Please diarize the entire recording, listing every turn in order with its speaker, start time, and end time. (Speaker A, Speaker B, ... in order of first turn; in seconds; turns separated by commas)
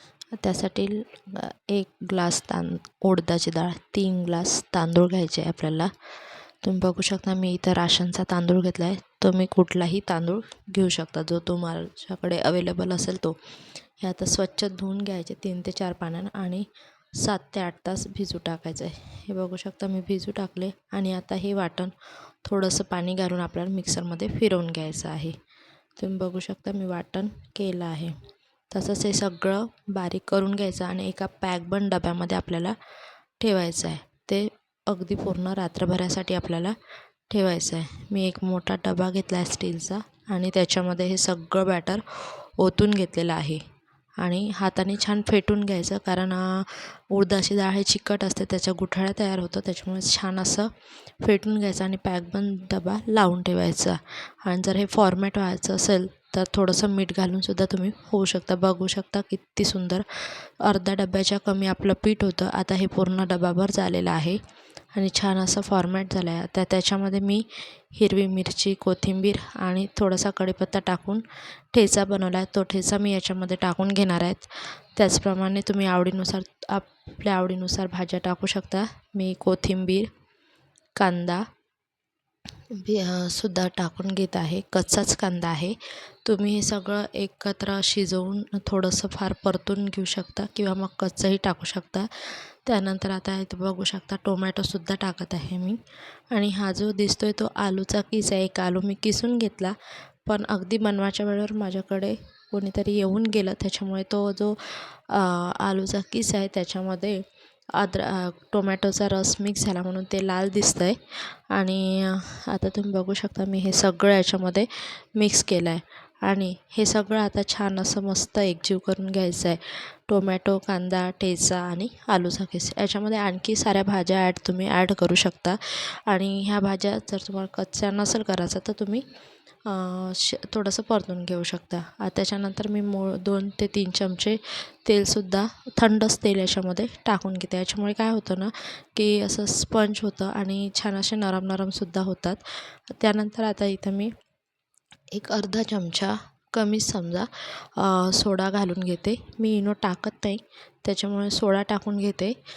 Speaker A: 0.4-5.9, Speaker A: 6.6-13.3, Speaker A: 14.0-21.9, Speaker A: 22.4-25.4, Speaker A: 26.0-28.2, Speaker A: 28.7-32.8, Speaker A: 33.4-36.8, Speaker A: 37.3-43.6, Speaker A: 44.2-50.7, Speaker A: 51.2-64.4, Speaker A: 64.9-80.1, Speaker A: 81.0-81.5, Speaker A: 82.7-95.8, Speaker A: 96.3-99.8, Speaker A: 100.3-107.2, Speaker A: 107.8-129.0, Speaker A: 129.7-144.1, Speaker A: 145.1-152.4